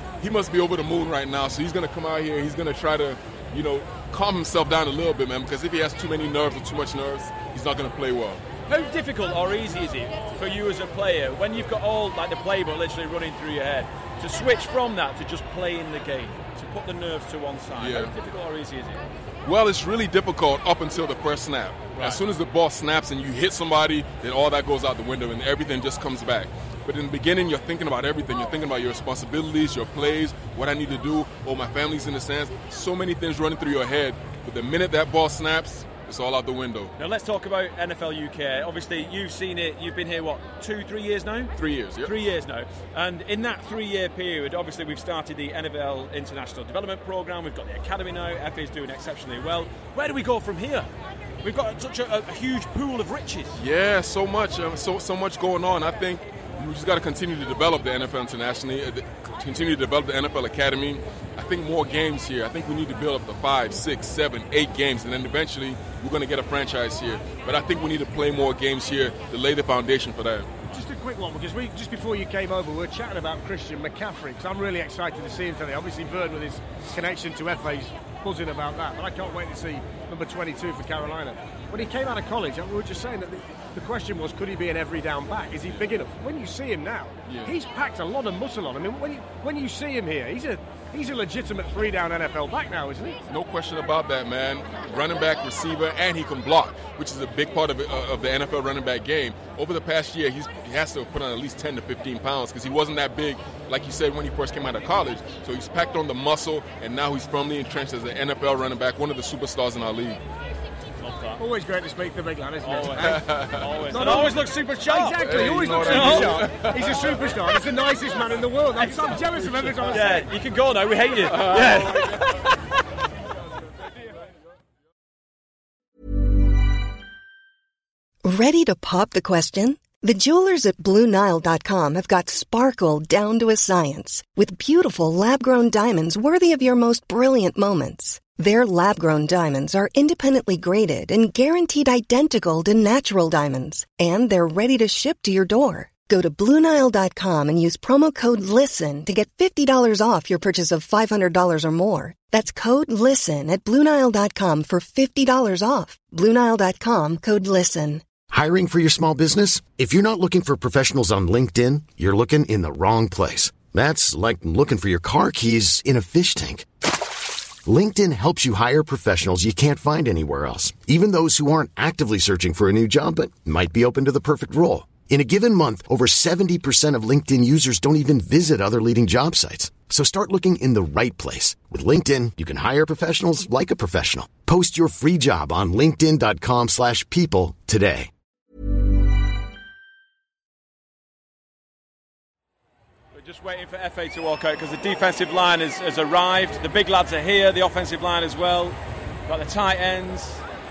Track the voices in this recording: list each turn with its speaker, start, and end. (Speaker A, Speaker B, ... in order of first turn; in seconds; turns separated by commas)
Speaker A: 0.2-8.4, Speaker B: 8.7-19.0, Speaker A: 17.8-18.1, Speaker A: 19.4-36.9, Speaker B: 21.9-22.2, Speaker B: 37.0-50.9, Speaker A: 41.5-42.1, Speaker B: 51.4-53.6, Speaker A: 53.5-70.5, Speaker C: 70.7-93.2, Speaker A: 87.2-87.5, Speaker A: 93.3-110.2, Speaker B: 111.0-111.4, Speaker C: 111.4-120.3, Speaker B: 112.6-116.5, Speaker A: 113.1-114.2, Speaker A: 115.2-117.3, Speaker B: 118.8-122.6, Speaker A: 121.2-122.3, Speaker D: 128.2-158.0, Speaker E: 158.3-166.7, Speaker E: 167.6-188.1, Speaker B: 193.1-198.8, Speaker B: 199.3-200.4